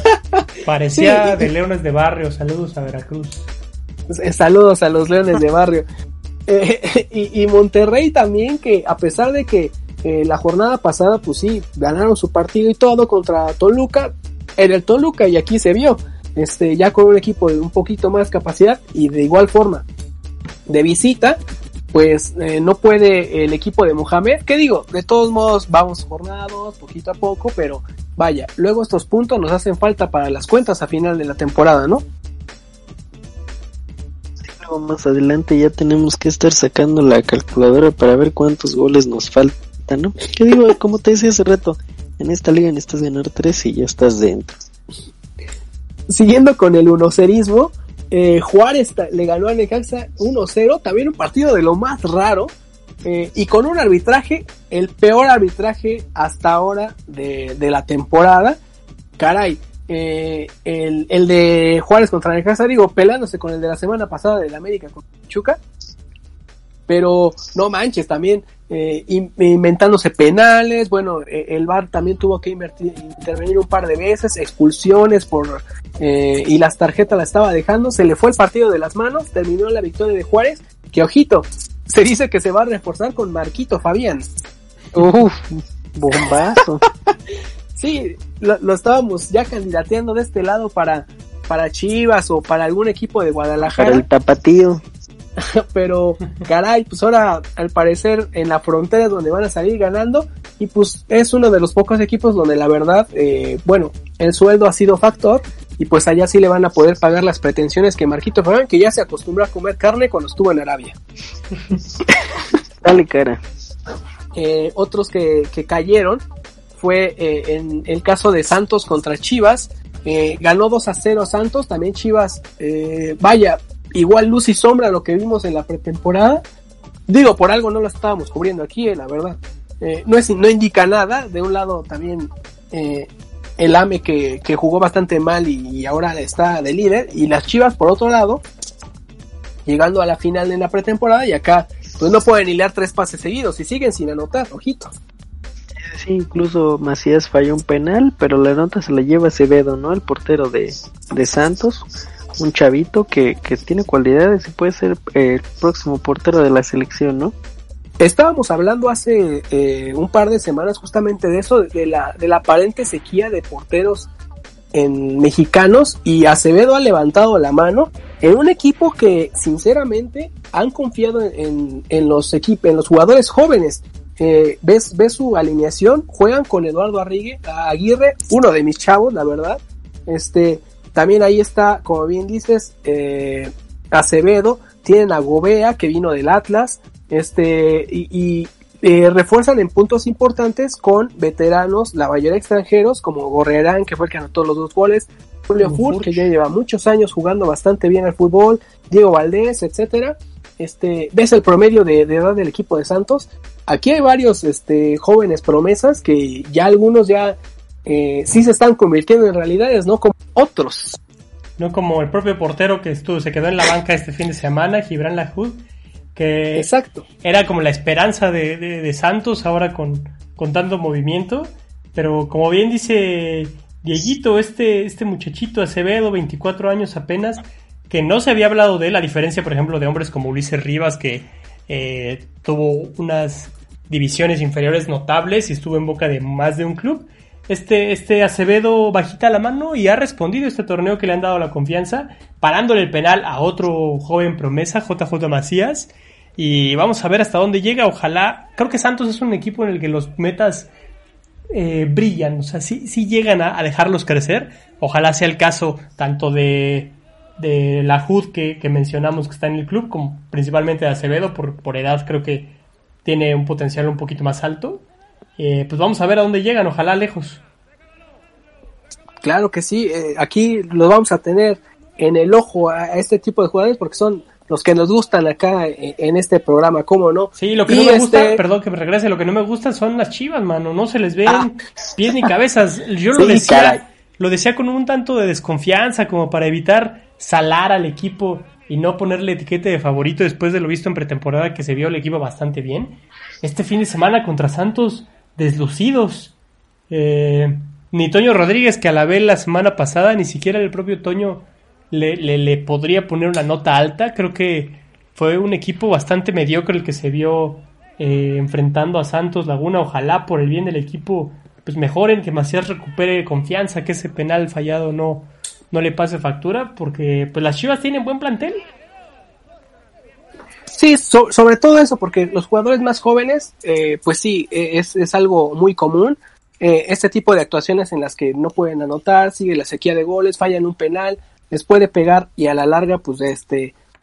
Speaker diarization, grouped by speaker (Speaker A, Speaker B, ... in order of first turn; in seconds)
Speaker A: 0.6-3.5, 195.6-196.3, 211.6-215.6, 216.1-216.7, 217.2-250.7, 251.5-262.5, 263.0-264.8, 265.4-267.4, 277.4-296.3, 296.9-318.6
Speaker B: 0.9-1.5, 4.1-5.8, 6.5-19.8, 20.7-21.4, 21.9-32.0, 46.1-52.5, 53.0-58.6, 59.2-65.6, 66.9-84.2, 87.8-94.0, 95.4-111.0, 114.3-116.2, 116.7-126.4, 127.1-133.1, 133.6-138.4, 139.7-144.9, 158.0-164.1, 164.7-211.0, 216.6-217.0, 269.2-278.4, 320.7-333.7
Speaker C: 34.4-44.5, 84.9-86.8, 93.7-94.8, 112.8-113.4, 145.8-151.8, 152.4-157.3, 283.1-283.8